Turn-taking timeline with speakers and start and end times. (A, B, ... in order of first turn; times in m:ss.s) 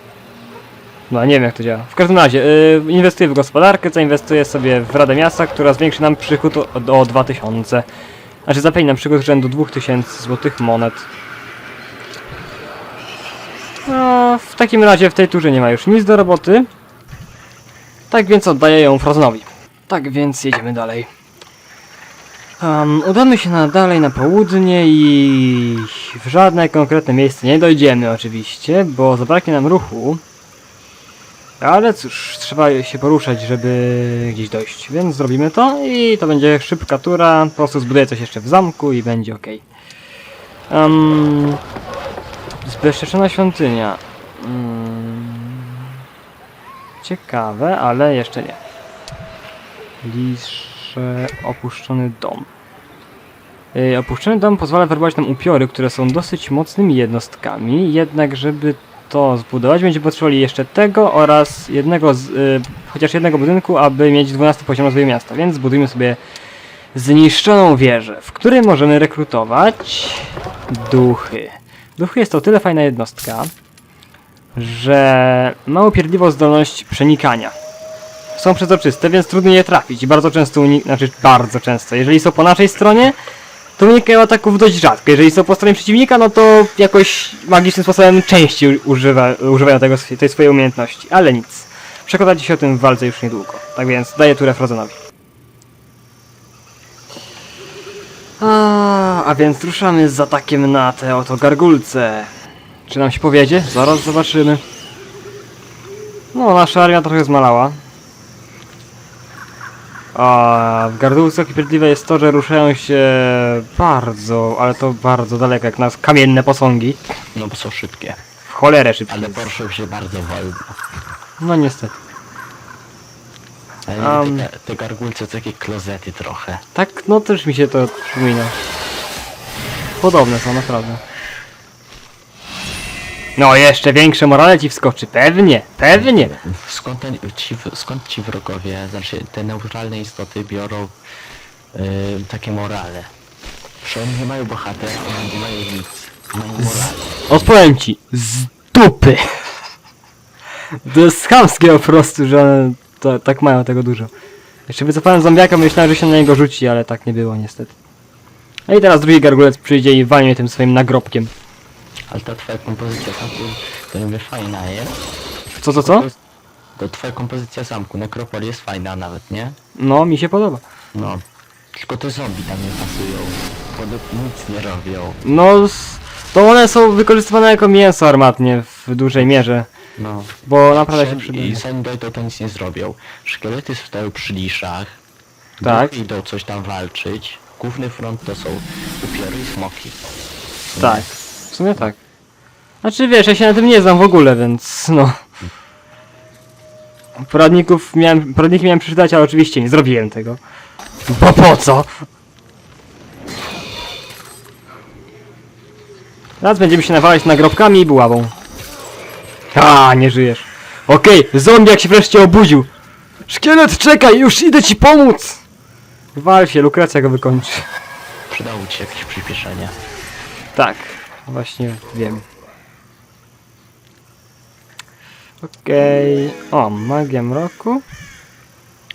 0:01.1-0:07.9 A
0:08.5-0:11.1 A
0:13.8-0:16.7 A
0:18.1-0:21.1 A
0:22.6-0:30.2 A
0:31.6-0:39.6 A
0:40.7-0:41.6 A
0:42.6-0:45.9 A
0:47.0-0:48.6 A
0:50.0-0:52.5 A
0:53.7-1:06.2 A
1:07.0-1:13.5 A
1:14.6-1:17.6 A
1:18.4-1:23.2 A
1:23.8-1:35.0 A
1:38.4-1:42.3 A
1:42.9-1:44.6 A
1:46.3-1:47.8 A
1:50.2-1:57.0 A
1:57.4-1:58.2 B
1:58.5-1:59.4 A
1:59.1-2:00.8 B
2:01.4-2:01.9 A
2:03.9-2:06.6 B
2:04.0-2:04.5 A
2:06.7-2:08.6 A
2:10.0-2:11.0 A
2:13.4-2:16.3 A
2:15.9-2:21.0 B
2:21.7-2:23.1 B
2:23.8-2:27.5 B
2:26.6-2:29.4 A
2:30.8-2:34.1 A
2:34.7-2:37.7 A
2:38.7-2:41.3 A
2:42.1-2:45.0 B
2:45.6-2:46.1 A
2:45.8-2:46.2 B
2:46.8-2:49.6 B
2:49.8-2:50.6 A
2:50.9-2:55.2 B
2:55.2-2:59.7 A
3:00.0-3:05.0 B
3:00.5-3:01.6 A
3:05.6-3:10.0 B
3:05.6-3:05.9 A
3:10.7-3:11.1 B
3:10.8-3:12.0 A
3:12.8-3:15.3 A
3:17.2-3:20.4 A
3:21.1-3:22.1 A
3:26.4-3:28.3 A
3:29.5-3:32.7 A
3:33.3-3:35.4 A
3:36.2-3:37.7 A
3:38.3-3:39.8 B
3:40.6-3:42.2 A
3:45.4-3:47.8 A